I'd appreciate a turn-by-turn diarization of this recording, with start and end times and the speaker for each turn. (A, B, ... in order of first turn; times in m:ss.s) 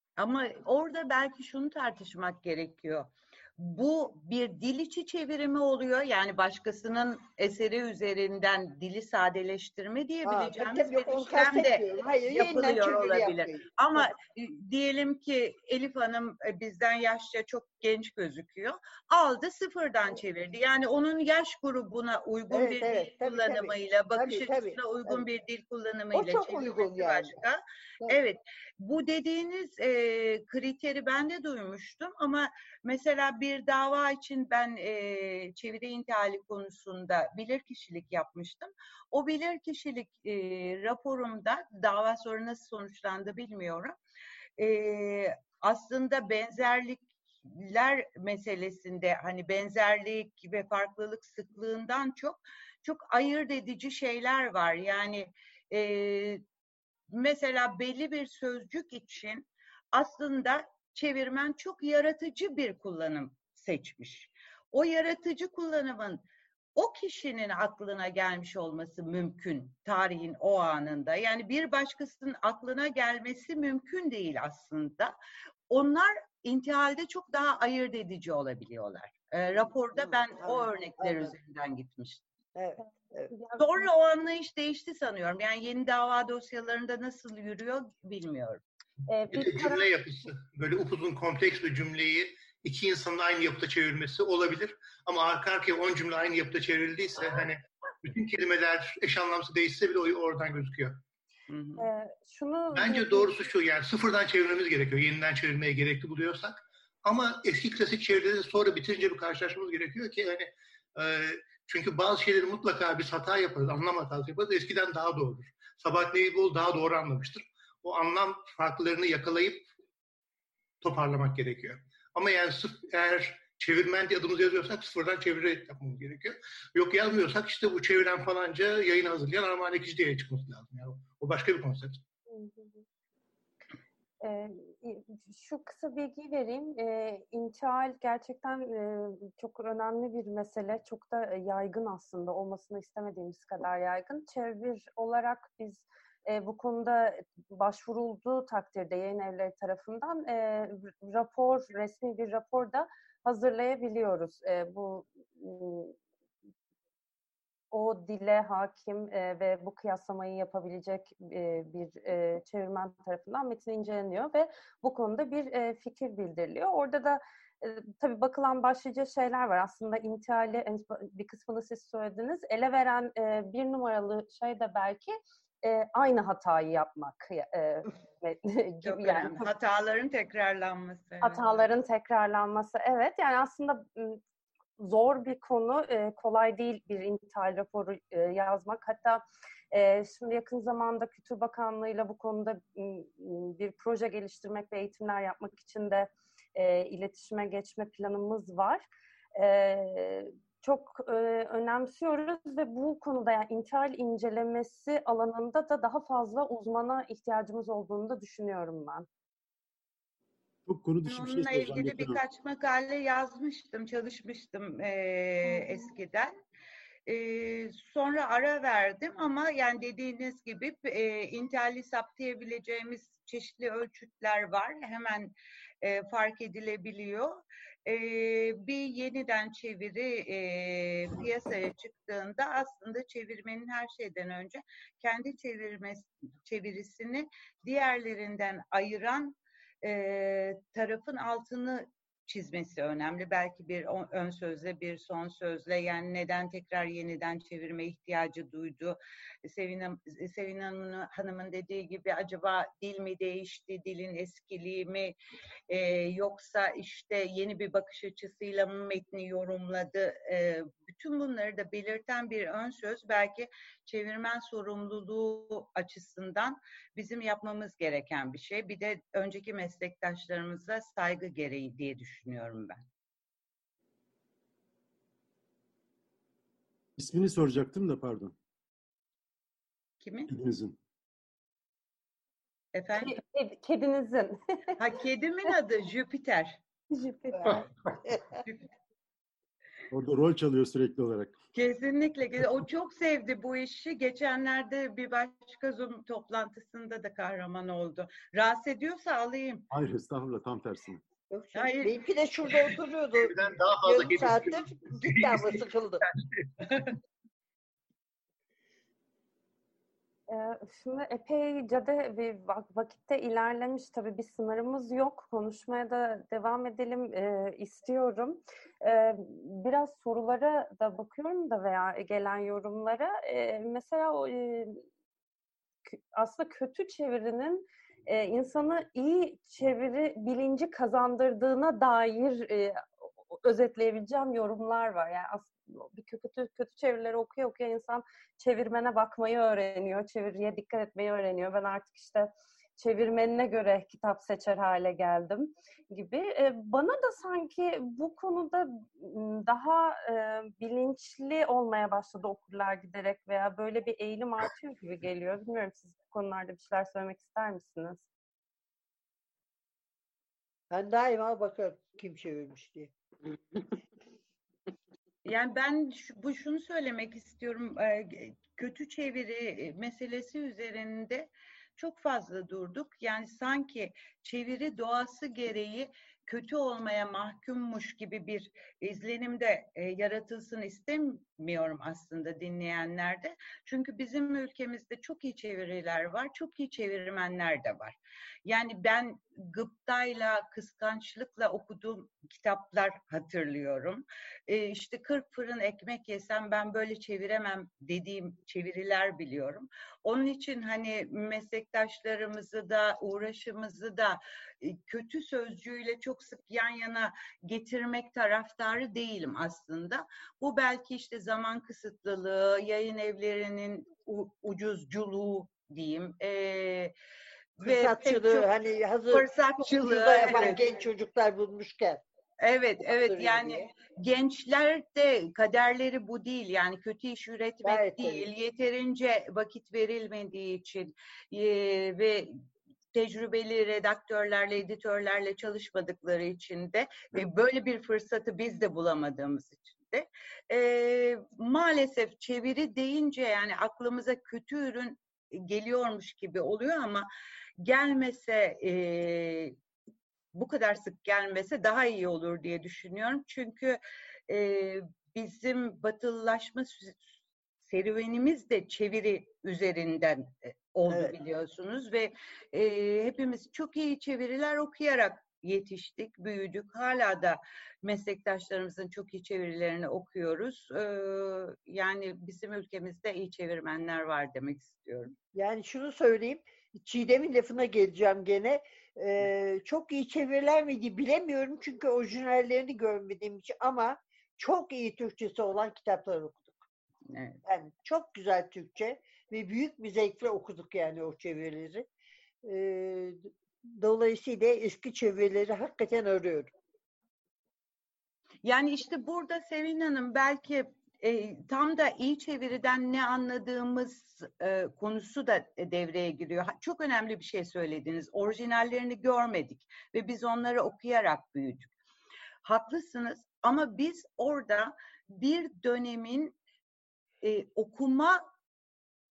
0:00.2-0:44.0 A
0:10.2-0:14.0 B
0:22.5-0:25.2 B
0:26.1-0:27.4 B
0:44.6-0:56.4 A
0:57.1-1:06.2 A
1:06.8-1:15.1 A
1:15.7-1:22.2 A
1:20.0-1:21.3 B
1:22.6-1:23.3 B
1:23.3-1:23.6 C
1:23.6-1:28.6 A
1:29.1-1:29.9 C
1:29.3-1:41.0 D
1:41.5-1:41.8 A
1:41.8-1:43.4 C
1:42.7-1:59.7 D
2:00.8-2:12.0 D
2:12.3-2:12.8 C
2:14.2-2:35.9 C
2:37.7-2:59.5 C
2:58.8-3:01.7 A
3:01.2-3:04.2 C
3:04.8-3:29.1 C
3:30.6-3:32.2 E
3:31.0-3:36.3 A
3:37.1-4:15.1 A
4:15.7-4:32.8 A
4:37.0-4:38.3 E
4:40.0-4:40.3 A
4:40.3-4:40.8 E
4:42.7-4:43.2 A
4:43.0-4:44.4 C
4:44.8-4:46.6 A
4:46.9-4:47.6 C
4:47.4-4:48.3 B
4:49.9-4:51.3 E
4:51.5-4:59.6 A
4:59.7-5:01.0 E
5:01.3-5:06.0 B
5:01.5-5:02.0 A
5:03.3-5:06.9 D
5:10.3-5:24.8 C
5:25.9-5:58.0 C
6:00.7-6:02.9 B
6:05.2-6:56.9 A
6:57.6-6:58.5 A
6:57.6-7:02.0 B
6:59.1-7:00.8 A
7:02.4-7:12.3 A
7:03.0-7:03.6 B
7:07.6-7:08.3 B
7:12.9-7:27.0 A
7:27.6-7:29.6 A
7:30.3-7:37.0 A
7:37.6-7:55.1 A
7:55.3-8:06.5 B
8:07.1-8:07.4 A
8:07.4-8:11.8 B
8:12.4-8:16.5 B
8:18.4-8:31.7 A
8:32.4-8:36.4 A
8:37.2-8:38.2 A